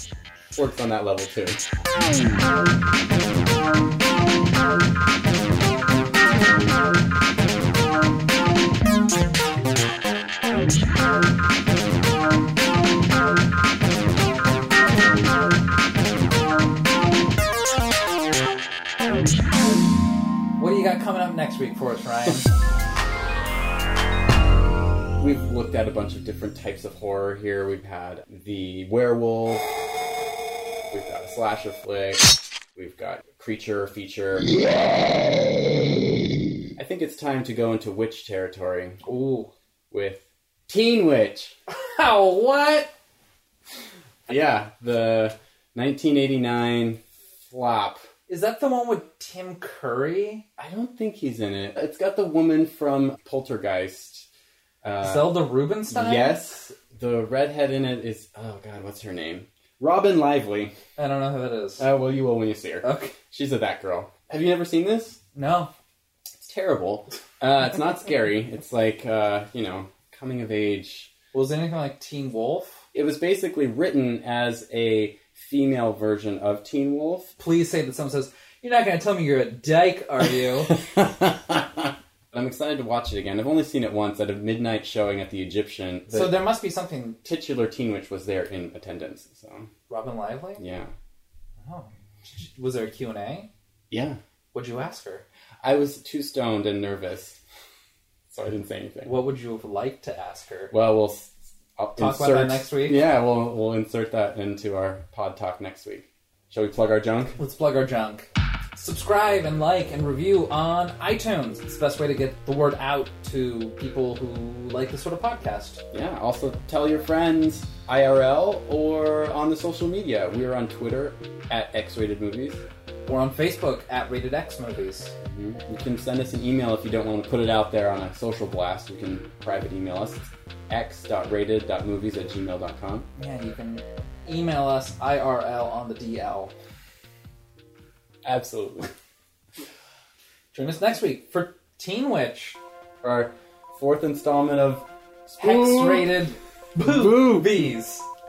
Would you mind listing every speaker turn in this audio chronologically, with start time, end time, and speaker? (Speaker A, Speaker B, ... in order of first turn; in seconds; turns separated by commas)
Speaker A: 0.6-1.6, Speaker B: 20.6-22.5, Speaker A: 25.2-29.7, Speaker A: 30.9-34.5, Speaker A: 36.8-39.0, Speaker B: 39.0-39.5, Speaker A: 39.9-41.6, Speaker B: 41.7-42.9, Speaker A: 44.3-48.1, Speaker B: 48.3-50.5, Speaker A: 50.6-54.3, Speaker A: 54.8-60.8, Speaker B: 55.0-56.4, Speaker B: 61.0-61.9, Speaker A: 61.8-65.2, Speaker B: 62.8-63.1, Speaker B: 65.3-65.7, Speaker A: 66.4-71.1, Speaker B: 71.3-72.9, Speaker A: 72.9-77.3, Speaker B: 77.4-80.7, Speaker A: 80.7-86.4, Speaker B: 86.1-87.2, Speaker A: 87.2-89.7, Speaker B: 89.9-90.6, Speaker A: 90.6-90.9, Speaker B: 91.6-93.5, Speaker A: 93.9-94.2, Speaker B: 94.5-95.2, Speaker A: 95.6-97.4, Speaker A: 98.3-99.2, Speaker B: 99.0-100.7, Speaker A: 100.7-107.4, Speaker B: 102.0-103.0, Speaker B: 107.4-115.8, Speaker A: 115.9-122.6, Speaker B: 123.1-125.1, Speaker A: 125.2-133.1, Speaker B: 133.2-136.5, Speaker A: 138.2-138.9, Speaker B: 140.5-142.6, Speaker A: 143.0-146.2, Speaker B: 145.4-148.1, Speaker A: 146.8-147.7